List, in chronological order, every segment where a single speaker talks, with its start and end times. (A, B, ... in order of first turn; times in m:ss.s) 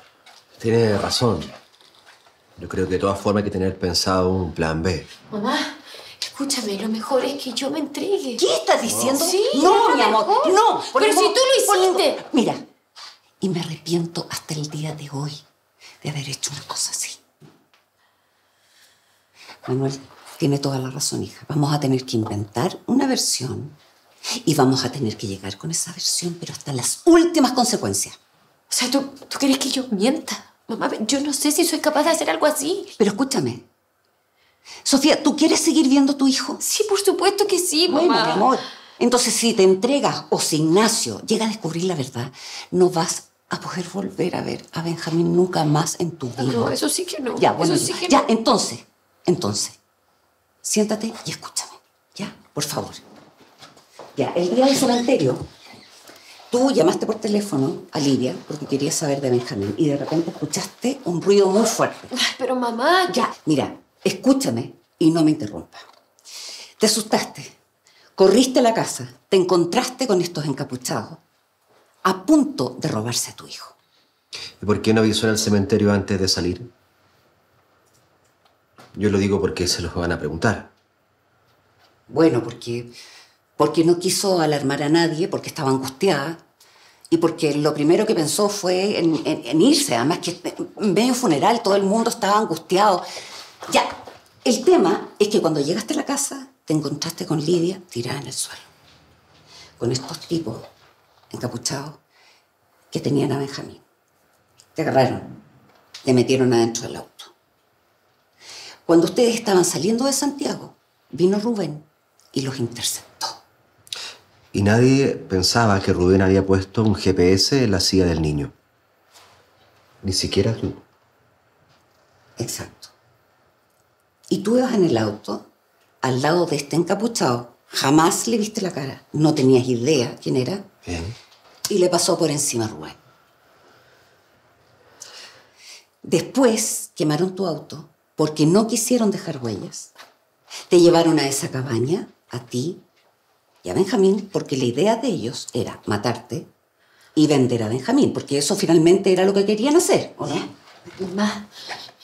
0:00.6-0:01.5 A
0:02.6-0:05.1 A
0:05.3-0:08.4 B
0:08.4-0:12.6 C
0:08.9-0:09.2 A
0:09.1-0:12.2 B
0:13.4-0:15.4 C
0:16.0-0:17.2 C
0:19.6-0:23.8 C
0:24.4-0:28.2 C
0:28.7-0:32.9 B
0:33.0-0:33.6 C
0:34.8-0:36.6 C
0:36.6-0:38.4 B
0:37.9-0:46.7 C
0:46.4-0:48.3 B
0:47.4-0:49.8 C
0:50.6-0:53.0 C
0:54.2-0:55.4 C
0:56.5-1:02.1 C
1:02.1-1:03.2 B
1:03.1-1:05.8 C
1:06.8-1:07.5 C
1:08.2-1:11.2 C
1:12.0-1:13.7 C
1:14.6-1:16.7 A
1:18.9-1:20.7 A
1:22.1-1:22.9 C
1:23.6-1:26.4 C
1:27.1-1:33.0 C
1:33.7-1:38.7 C
1:39.8-1:40.6 C
1:41.3-1:42.0 C
1:42.9-1:43.8 C
1:44.8-1:45.4 C
1:46.0-1:47.3 C
1:48.8-1:53.4 C
1:54.5-1:58.5 A
2:00.0-2:00.8 A
2:02.4-2:02.9 C
2:04.3-2:05.5 C
2:06.0-2:10.7 C
2:10.9-2:11.1 A
2:11.7-2:13.0 C
2:16.0-2:19.9 C
2:20.7-2:22.8 C
2:23.6-2:26.5 C
2:27.1-2:30.5 C
2:30.9-2:31.5 B